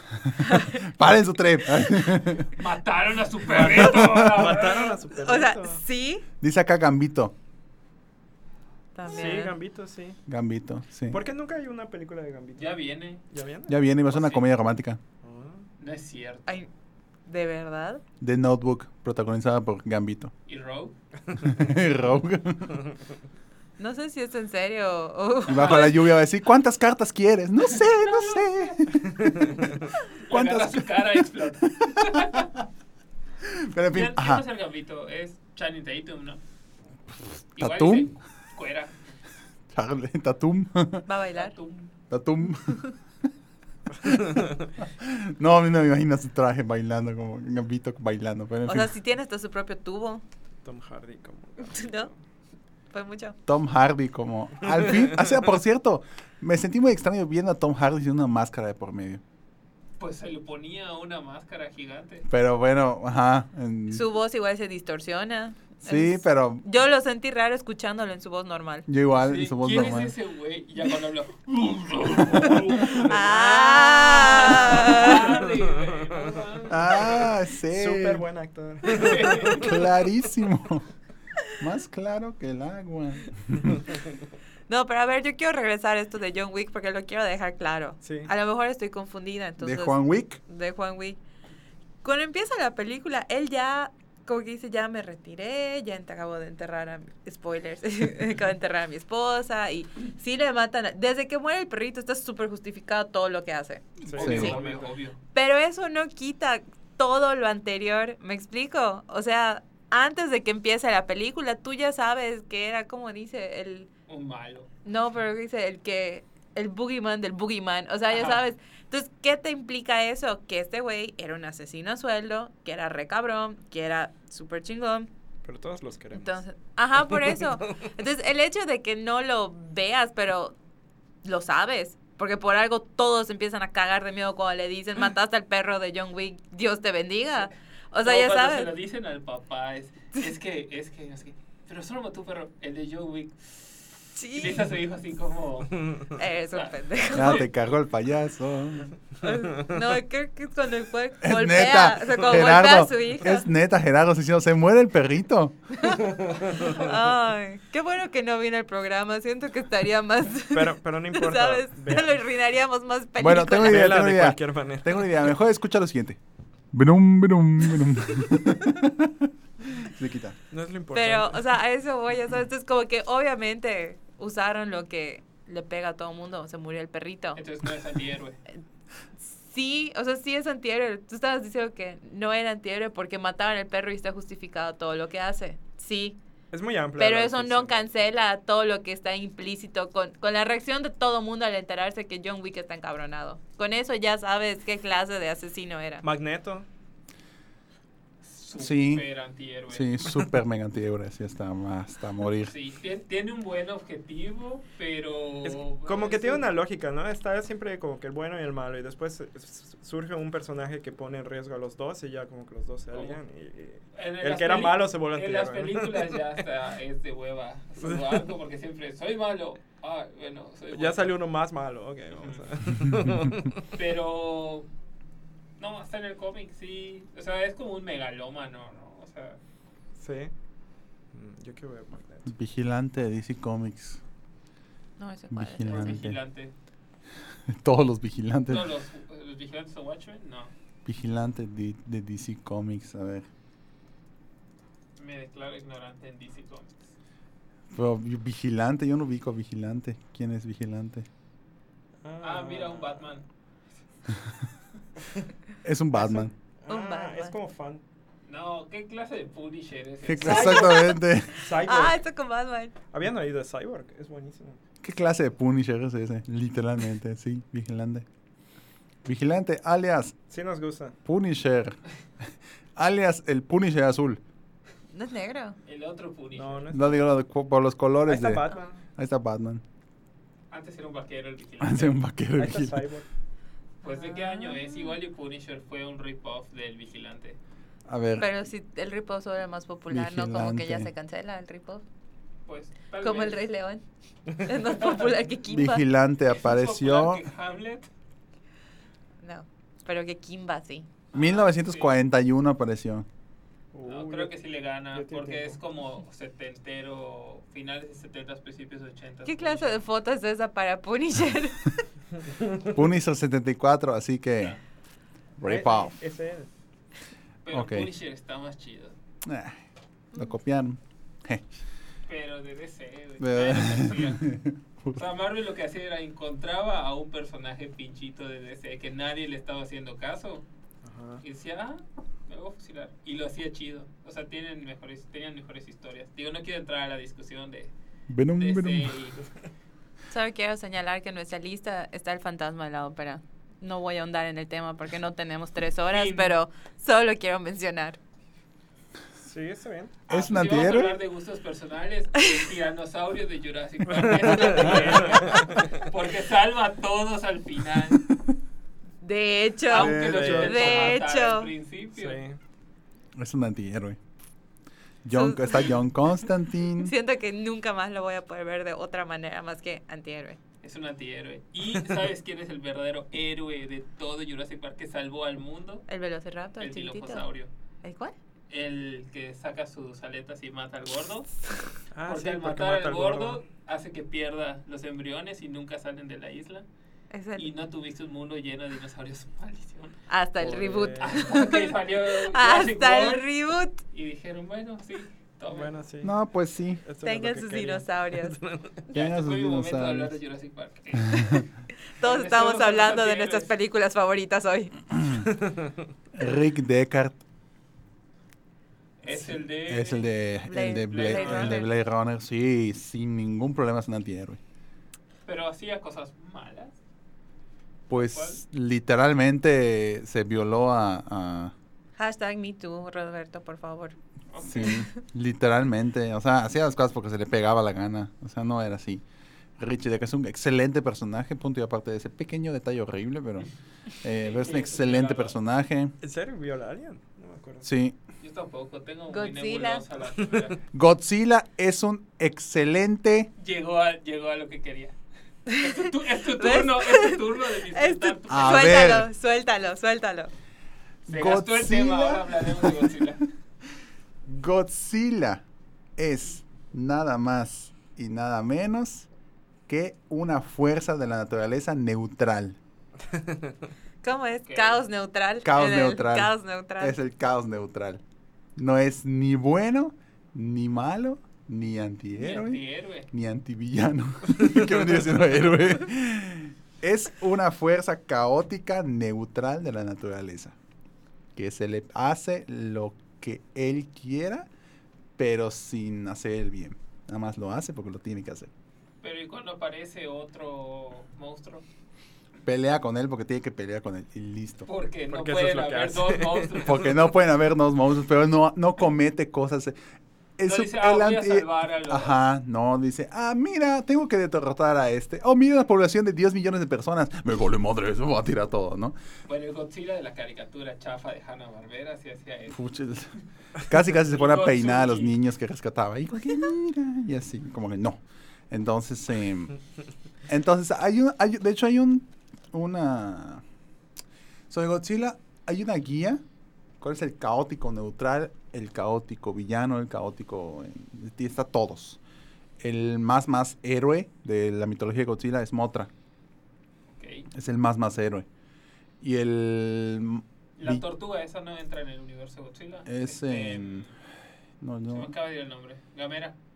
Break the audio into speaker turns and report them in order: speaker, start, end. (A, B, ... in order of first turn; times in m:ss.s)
0:00.2-0:02.5 A
0:00.3-0:00.8 B
0:02.5-0:05.0 C
0:03.5-0:05.8 D
0:03.5-0:04.5 A
0:05.2-0:06.2 B
0:06.4-0:07.3 A
0:08.9-0:09.5 B
0:09.0-0:10.2 D
0:10.3-0:11.2 A
0:11.1-0:12.8 D
0:12.6-0:13.2 C
0:13.3-0:13.8 D
0:13.7-0:15.0 A
0:14.1-0:14.4 C
0:15.2-0:15.7 D
0:15.8-0:16.6 C
0:17.2-0:18.0 B
0:18.2-0:20.3 A
0:20.5-0:21.0 C
0:21.4-0:22.8 A
0:23.8-0:26.0 B
0:25.5-0:29.3 A
0:25.5-0:25.9 C
0:27.7-0:28.8 C
0:30.2-0:32.5 C
0:30.3-0:31.0 A
0:31.8-0:32.4 A
0:33.4-0:34.4 A
0:33.9-0:36.4 C
0:37.2-0:38.1 A
0:37.6-0:39.0 C
0:39.7-0:41.1 A
0:41.0-0:41.5 B
0:41.4-0:41.9 C
0:42.1-0:42.8 A
0:44.0-0:48.9 A
0:48.6-0:50.2 B
0:50.6-0:52.2 D
0:51.6-0:52.1 B
0:52.9-0:53.4 B
0:53.4-0:59.2 A
0:54.7-0:55.0 D
1:00.0-1:02.3 C
1:02.3-1:04.0 A
1:03.9-1:08.8 B
1:05.8-1:06.6 A
1:08.9-1:10.1 A
1:09.1-1:17.3 C
1:13.0-1:15.3 B
1:15.0-1:19.8 D
1:16.7-1:18.2 A
1:18.8-1:19.8 C
1:19.5-1:20.9 A
1:21.6-1:23.8 A
1:24.7-1:31.2 B
1:28.0-1:28.3 D
1:29.6-1:30.4 A
1:32.0-1:43.8 B
1:44.0-1:44.9 D
1:44.1-1:45.2 C
1:44.2-1:44.6 A
1:45.3-1:53.9 B
1:54.1-1:54.7 C
1:54.8-2:05.1 B
1:58.1-1:58.4 C
2:05.4-2:06.4 D
2:06.1-2:10.6 B
2:07.1-2:07.7 D
2:11.2-2:18.7 B
2:18.0-2:27.4 C
2:24.1-2:24.7 B
2:26.2-2:27.4 B
2:27.1-2:28.9 A
2:29.2-2:33.5 B
2:31.2-2:35.6 A
2:35.8-2:43.9 B
2:36.1-2:36.8 D
2:40.5-2:42.2 D
2:43.2-2:46.2 A
2:43.6-2:45.3 D
2:46.7-2:50.4 A
2:50.5-2:51.4 D
2:50.9-2:57.4 B
2:57.4-2:58.4 C
2:59.2-3:06.2 B
3:06.5-3:07.9 D
3:07.0-3:16.0 B
3:16.0-3:16.7 D
3:18.2-3:20.3 C
3:18.6-3:19.0 A
3:19.7-3:22.5 A
3:22.4-3:26.5 C
3:25.4-3:36.1 D
3:32.9-3:33.2 C
3:33.9-3:41.1 C
3:40.7-3:43.7 D
3:42.1-3:42.4 C
3:43.7-3:44.7 C
3:45.6-3:49.4 C
3:50.0-3:50.3 D
3:51.1-3:52.3 D
3:52.3-3:54.0 A
3:55.0-3:55.9 B
3:55.3-3:56.2 A
3:55.6-3:56.5 C
3:57.5-3:58.7 A
3:58.5-4:00.5 C
4:00.8-4:03.3 A
4:05.0-4:06.9 C
4:07.7-4:11.1 A
4:12.0-4:13.2 D
4:12.2-4:13.2 C
4:15.6-4:16.3 A
4:16.0-4:17.8 D
4:16.7-4:17.3 B
4:18.3-4:21.0 C
4:20.0-4:21.3 A
4:20.2-4:22.7 B
4:21.3-4:22.0 D
4:22.9-4:24.6 D
4:24.8-4:28.0 A
4:29.0-4:30.1 A
4:30.3-4:31.0 D
4:31.0-4:31.8 A
4:32.8-4:34.2 A
4:34.9-4:35.6 B
4:35.6-4:36.7 C
4:36.3-4:37.0 D
4:36.7-4:38.4 A
4:38.0-4:38.7 D
4:39.0-4:39.6 A
4:40.5-4:42.0 C
4:41.6-4:42.8 A
4:42.4-4:43.0 D
4:43.8-4:44.9 B
4:43.8-4:47.4 C
4:47.9-4:48.3 A
4:48.2-4:51.8 B
4:49.9-4:50.9 A
4:52.4-4:53.4 C
4:53.0-4:53.8 B
4:54.4-4:55.8 B
4:54.7-4:55.1 C
4:55.5-4:57.2 A
4:56.3-4:57.8 C
4:59.2-5:00.9 B
5:01.1-5:01.9 C
5:01.1-5:03.0 A
5:03.7-5:04.3 D
5:03.8-5:09.8 C
5:04.9-5:05.6 D
5:09.2-5:11.8 B
5:12.6-5:14.6 A
5:15.4-5:15.9 A
5:15.4-5:16.5 D
5:17.4-5:18.9 C
5:17.5-5:17.9 A
5:19.2-5:19.6 A
5:20.1-5:21.5 A
5:22.1-5:24.3 C
5:23.2-5:25.0 A
5:24.9-5:30.4 C
5:30.8-5:31.2 D
5:31.2-5:37.7 C
5:38.1-5:39.0 A
5:38.4-5:39.2 C
5:40.1-5:48.0 B
5:45.9-5:46.3 C
5:49.2-5:50.0 D
5:50.1-5:58.1 C
5:50.1-5:51.0 A
5:53.9-5:55.7 D
5:59.0-6:01.5 B
5:59.7-6:02.2 C
5:59.7-6:00.8 A
6:00.0-6:00.9 D
6:01.9-6:02.4 D
6:03.2-6:04.0 A
6:05.0-6:06.9 A
6:05.1-6:05.7 B
6:06.8-6:10.4 B
6:10.6-6:15.9 C
6:15.9-6:17.3 B
6:16.6-6:17.5 C
6:17.8-6:18.1 B
6:18.5-6:21.4 C
6:21.9-6:23.4 D
6:22.0-6:26.6 C
6:27.1-6:27.5 B
6:27.4-6:30.0 C
6:30.1-6:33.8 B
6:30.4-6:31.4 D
6:31.0-6:33.3 C
6:33.9-6:35.7 C
6:35.5-6:36.1 D
6:36.0-6:36.8 A
6:36.8-6:38.8 D
6:37.0-6:38.4 B
6:38.9-6:40.1 A
6:38.9-6:41.5 C
6:41.0-6:41.4 A
6:42.0-6:44.7 B
6:42.0-6:43.5 C
6:45.0-6:45.2 A
6:45.3-6:45.7 D
6:46.1-6:47.2 A
6:49.0-6:50.1 C
6:49.1-6:54.4 A
6:50.5-6:51.7 B
6:50.6-6:51.6 C
6:55.2-6:56.8 C
6:57.9-7:01.5 A
6:57.9-6:58.4 C
7:02.0-7:03.9 B
7:04.3-7:04.9 C
7:04.4-7:09.0 A
7:09.6-7:13.5 A
7:14.0-7:15.9 A
7:14.1-7:15.4 C
7:16.0-7:17.7 D
7:17.6-7:18.0 A
7:18.2-7:20.6 C
7:19.1-7:19.8 B
7:20.7-7:23.3 A
7:23.4-7:24.9 C
7:25.5-7:30.3 B
7:25.6-7:29.0 C
7:28.3-7:29.1 A
7:31.0-7:33.2 C
7:31.1-7:32.9 A
7:34.2-7:35.4 A
7:36.0-7:39.1 A
7:39.7-7:42.6 A
7:43.1-7:43.5 D
7:44.0-7:47.0 B
7:44.5-7:44.8 C
7:45.4-7:48.0 A
7:48.6-8:00.5 A
7:52.1-7:53.1 C
8:01.3-8:04.5 A
8:05.2-8:08.5 A
8:09.0-8:11.6 C
8:12.4-8:14.7 A
8:14.6-8:17.0 C
8:15.1-8:16.7 D
8:16.6-8:19.8 A
8:20.4-8:28.9 A
8:20.4-8:22.2 C
8:29.3-8:32.6 C
8:32.5-8:33.1 A
8:33.6-8:39.5 A
8:33.9-8:35.1 C
8:40.3-8:43.4 A
8:44.5-8:46.2 A
8:46.8-8:52.0 A
8:52.6-8:55.9 A
8:56.9-8:57.3 C
8:57.3-8:58.2 A
8:59.0-9:00.8 A
9:00.6-9:03.9 C
9:02.8-9:03.9 A
9:04.6-9:05.1 A
9:04.9-9:06.4 C